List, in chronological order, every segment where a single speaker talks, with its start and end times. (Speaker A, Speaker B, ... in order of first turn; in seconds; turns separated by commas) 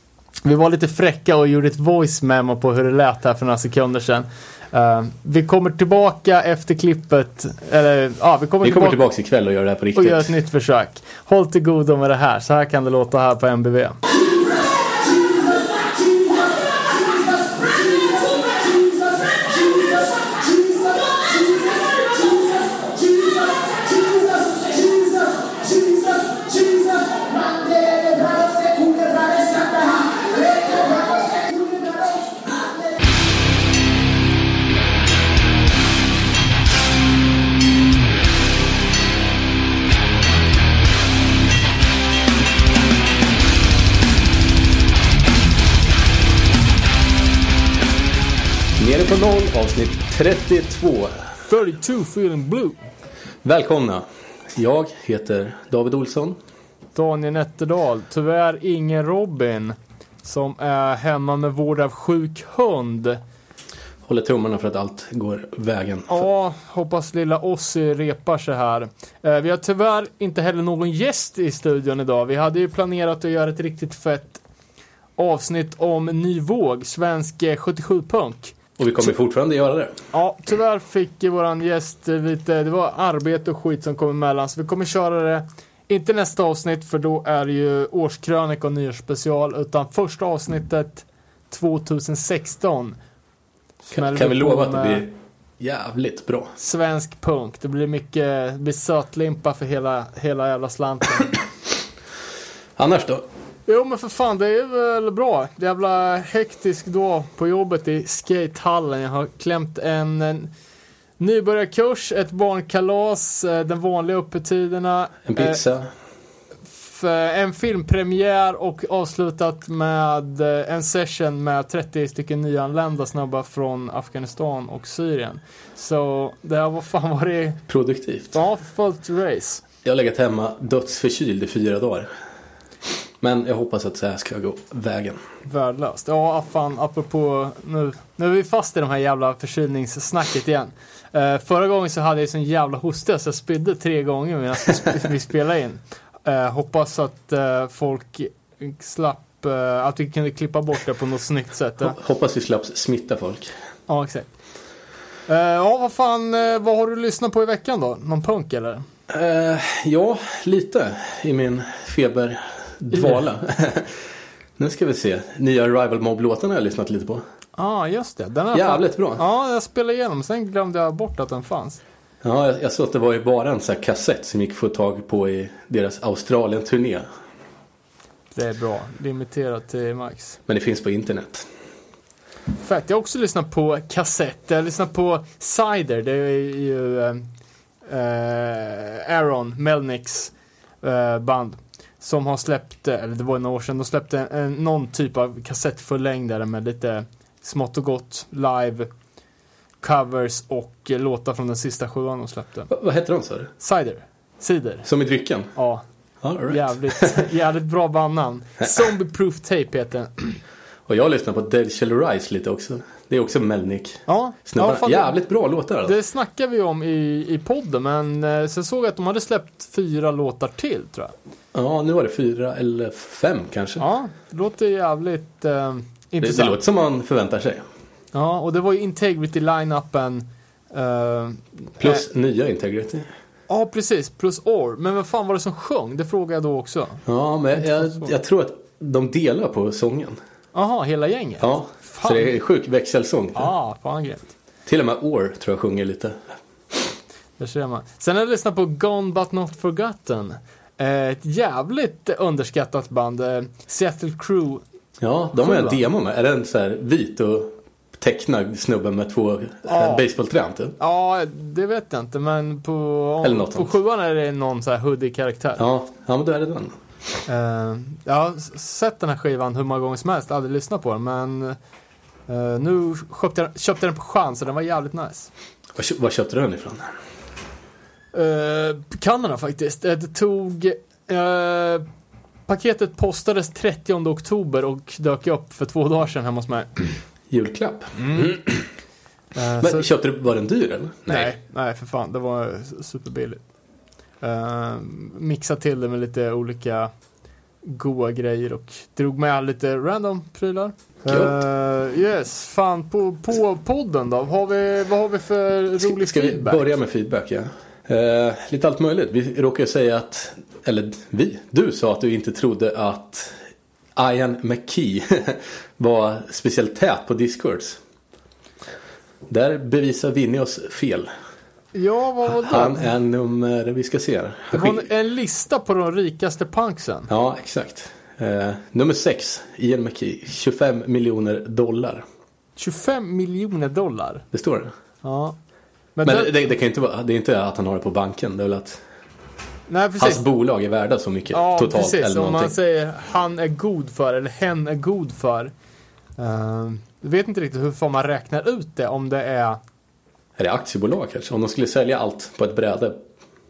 Speaker A: 0.4-9.0, Speaker B: 8.6-10.3, Speaker A: 9.9-14.0, Speaker A: 15.4-32.2, Speaker B: 48.8-51.3, Speaker A: 51.5-52.9, Speaker B: 53.4-56.4, Speaker A: 57.0-63.2, Speaker B: 64.1-66.2, Speaker A: 66.1-74.4, Speaker A: 75.2-78.6, Speaker B: 78.8-80.0, Speaker A: 80.1-93.0, Speaker A: 93.9-95.1, Speaker B: 93.9-96.6, Speaker A: 96.6-101.3, Speaker B: 102.8-103.2, Speaker A: 103.7-110.5, Speaker A: 111.2-115.6, Speaker B: 115.3-115.9, Speaker A: 116.7-127.6, Speaker B: 127.7-128.4, Speaker A: 128.3-129.6, Speaker B: 129.8-132.1, Speaker B: 133.2-135.2, Speaker A: 135.5-152.0, Speaker B: 151.8-153.5, Speaker A: 153.9-154.3, Speaker A: 155.3-158.8, Speaker B: 159.1-164.0, Speaker A: 162.9-163.2, Speaker B: 164.6-167.2, Speaker A: 167.6-171.8, Speaker B: 168.5-169.2, Speaker B: 172.2-177.1, Speaker A: 178.3-180.4, Speaker B: 180.5-181.5, Speaker A: 182.6-187.3, Speaker A: 187.8-198.9, Speaker A: 199.8-202.7, Speaker B: 202.7-203.5, Speaker A: 203.6-204.9, Speaker B: 204.8-205.5, Speaker A: 205.6-205.8, Speaker B: 206.2-207.2, Speaker A: 206.4-210.4, Speaker B: 210.9-215.9, Speaker A: 214.1-215.2, Speaker A: 215.8-221.1, Speaker B: 221.5-223.8, Speaker A: 223.8-226.6, Speaker B: 226.2-227.7, Speaker A: 228.1-232.0, Speaker B: 231.8-233.1, Speaker A: 233.5-237.0, Speaker B: 237.1-240.2, Speaker A: 237.6-238.1, Speaker A: 240.5-242.3, Speaker B: 241.4-243.5, Speaker A: 243.3-244.3, Speaker B: 244.7-246.2, Speaker A: 247.4-254.6, Speaker B: 255.0-260.8, Speaker A: 255.3-255.8, Speaker A: 259.7-260.0, Speaker A: 260.8-265.6, Speaker B: 263.2-263.7, Speaker B: 265.6-266.8, Speaker A: 267.3-271.6, Speaker A: 272.3-275.3, Speaker B: 275.8-276.9, Speaker A: 278.1-281.9, Speaker A: 282.5-287.0, Speaker B: 287.3-288.7, Speaker A: 288.0-288.4, Speaker A: 289.4-289.9, Speaker B: 289.6-291.3, Speaker A: 291.1-293.4, Speaker A: 294.2-296.9, Speaker A: 297.6-306.6, Speaker B: 301.1-301.4, Speaker B: 305.8-313.4, Speaker B: 314.0-317.8, Speaker B: 319.3-321.1, Speaker A: 321.7-322.9, Speaker B: 322.3-324.8, Speaker A: 324.5-327.1, Speaker B: 327.1-332.1, Speaker A: 332.6-334.2, Speaker B: 334.3-334.7, Speaker A: 335.0-335.4, Speaker A: 336.0-336.4, Speaker B: 336.0-338.8, Speaker A: 339.7-340.2, Speaker B: 340.0-342.5, Speaker A: 341.3-345.5, Speaker A: 346.2-349.6, Speaker B: 350.4-353.0